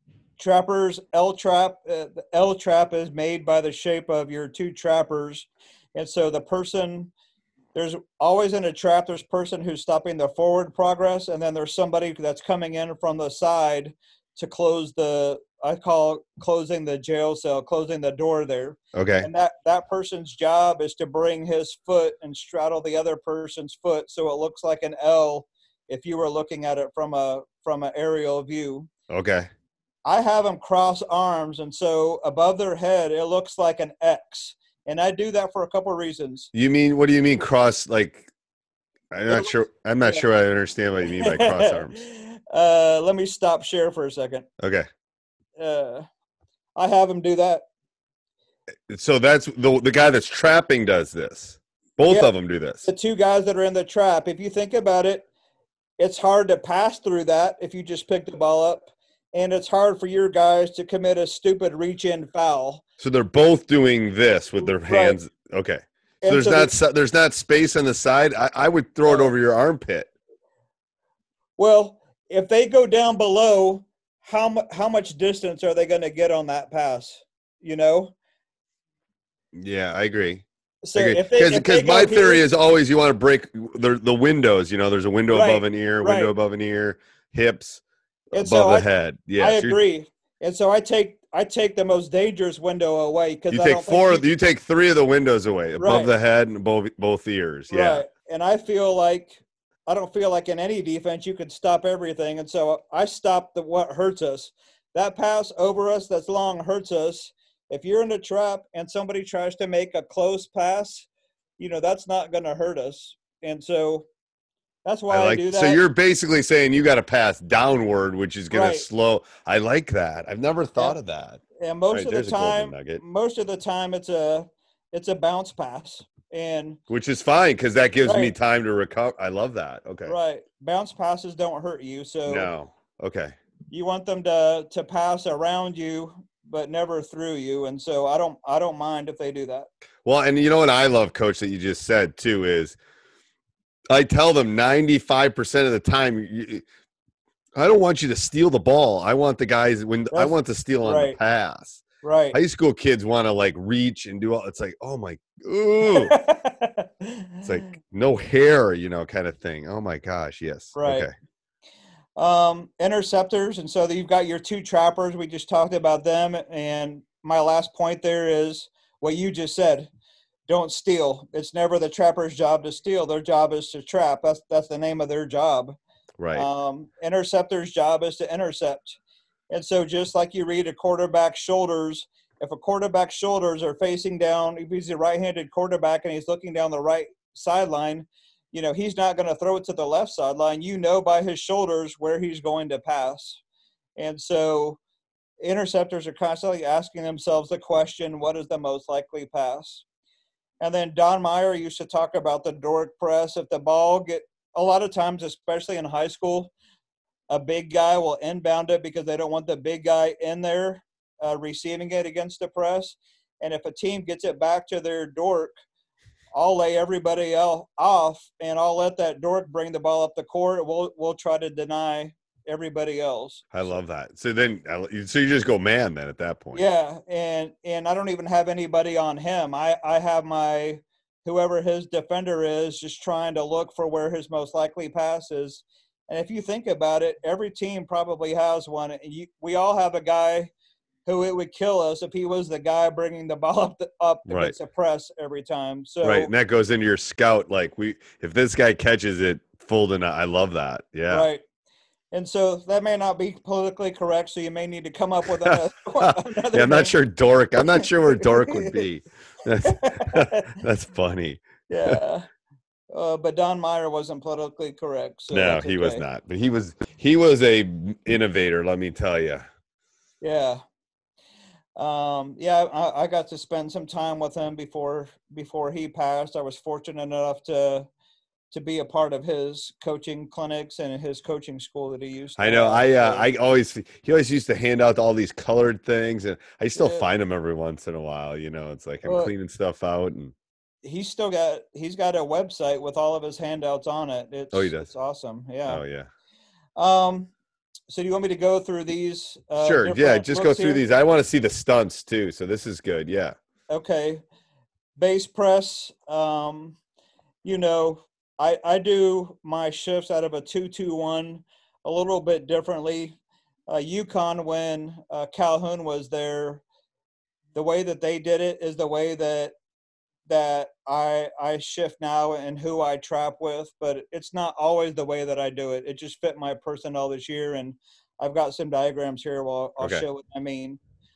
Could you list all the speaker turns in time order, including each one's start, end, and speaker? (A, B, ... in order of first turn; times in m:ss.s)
0:00.4-0:07.1 A
0:07.8-0:28.9 A
0:18.9-0:19.3 B
0:29.1-0:29.5 B
0:30.0-0:36.5 A
0:36.5-0:38.3 B
0:39.1-0:42.0 B
0:41.1-0:44.5 A
0:44.6-0:44.9 B
0:45.6-0:46.1 A
0:46.8-0:47.6 A
0:48.9-0:52.9 B
0:52.1-0:52.3 A
0:52.8-0:55.2 A
0:56.0-1:02.8 A
1:03.0-1:10.1 B
1:04.6-1:05.2 A
1:06.2-1:06.7 A
1:09.0-1:09.3 A
1:11.6-1:18.1 A
1:19.6-1:20.4 B
1:20.8-1:22.4 A
1:21.0-1:27.8 B
1:25.3-1:26.3 A
1:28.3-1:29.8 B
1:28.3-1:34.3 A
1:33.5-1:38.0 B
1:35.8-1:36.1 A
1:37.7-1:51.1 A
1:51.6-1:54.1 A
1:54.8-1:55.8 A
1:55.1-2:03.0 B
1:58.5-1:58.8 A
2:01.6-2:06.8 A
2:06.9-2:10.2 B
2:08.0-2:08.4 A
2:10.1-2:12.5 A
2:12.3-2:13.4 B
2:13.7-2:19.7 A
2:20.0-2:22.8 B
2:23.9-2:26.6 B
2:27.6-2:36.2 B
2:30.1-2:31.2 A
2:32.0-2:32.4 A
2:35.9-2:37.5 A
2:37.4-2:41.1 B
2:40.8-2:41.1 A
2:42.2-2:49.9 A
2:50.5-2:55.8 A
2:56.2-2:56.5 B
2:56.4-2:59.0 A
2:59.5-3:13.4 A
3:14.0-3:14.8 A
3:15.4-3:19.8 A
3:20.6-3:26.5 A
3:27.3-3:35.5 A
3:36.3-3:43.7 A
3:43.5-3:46.6 B
3:46.6-4:00.5 A
4:01.1-4:06.3 A
4:04.3-4:04.6 B
4:06.0-4:11.3 B
4:11.1-4:11.4 A
4:12.1-4:17.0 A
4:16.5-4:22.0 B
4:17.8-4:18.8 A
4:19.7-4:20.5 A
4:21.7-4:22.3 A
4:22.9-4:26.0 A
4:25.3-4:29.5 B
4:30.2-4:30.6 A
4:31.8-4:37.9 A
4:38.5-4:43.3 A
4:42.4-4:50.3 B
4:46.8-4:47.1 A
4:49.0-4:49.3 A
4:50.8-4:55.8 A
4:54.5-4:54.9 B
4:55.7-4:56.1 B
4:56.8-4:57.3 A
4:57.9-5:00.8 A
4:59.6-5:03.4 B
5:03.7-5:04.2 A
5:05.0-5:06.8 A
5:07.4-5:13.2 A
5:13.7-5:16.6 A
5:17.5-5:19.5 A
5:20.3-5:30.8 A